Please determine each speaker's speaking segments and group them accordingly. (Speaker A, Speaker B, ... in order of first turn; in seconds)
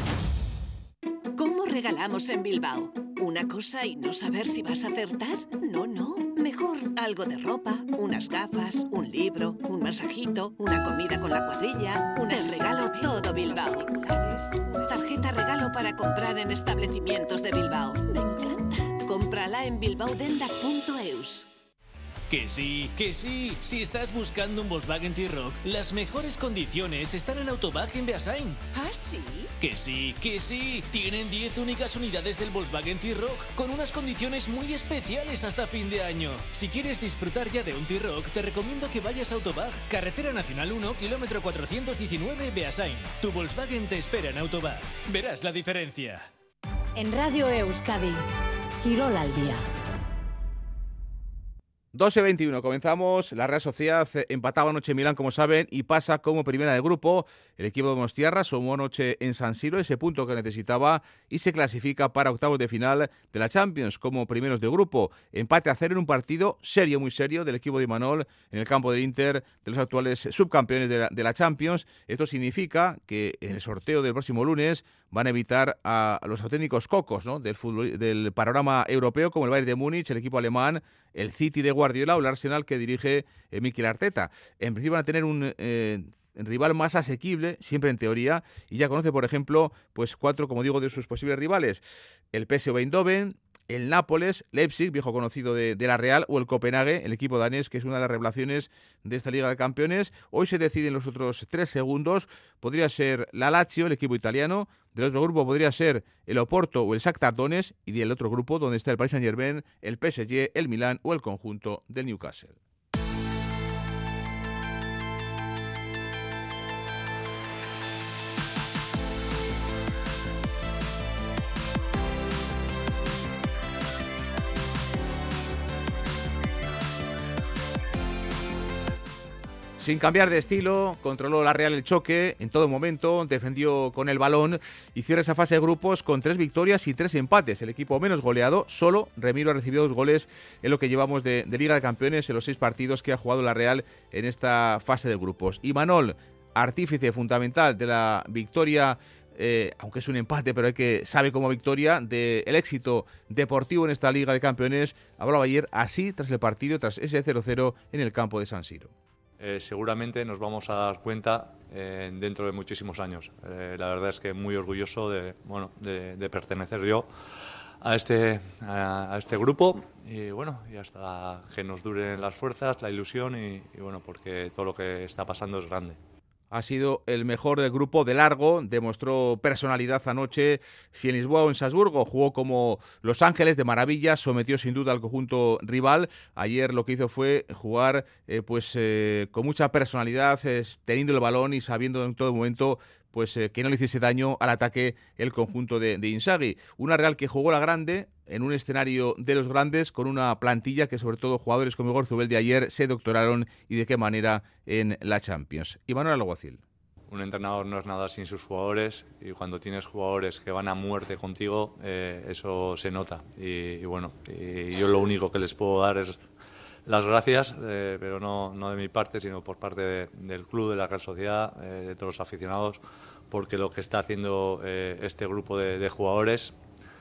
Speaker A: 1.4-21.5, 28.7-29.5
Speaker B: 22.3-28.6, 29.6-46.2
Speaker C: 47.0-48.2, 48.8-49.6
Speaker D: 51.9-91.8, 92.3-112.6, 129.8-158.9, 176.5-206.6
Speaker E: 159.4-176.0, 207.1-216.3, 216.8-226.6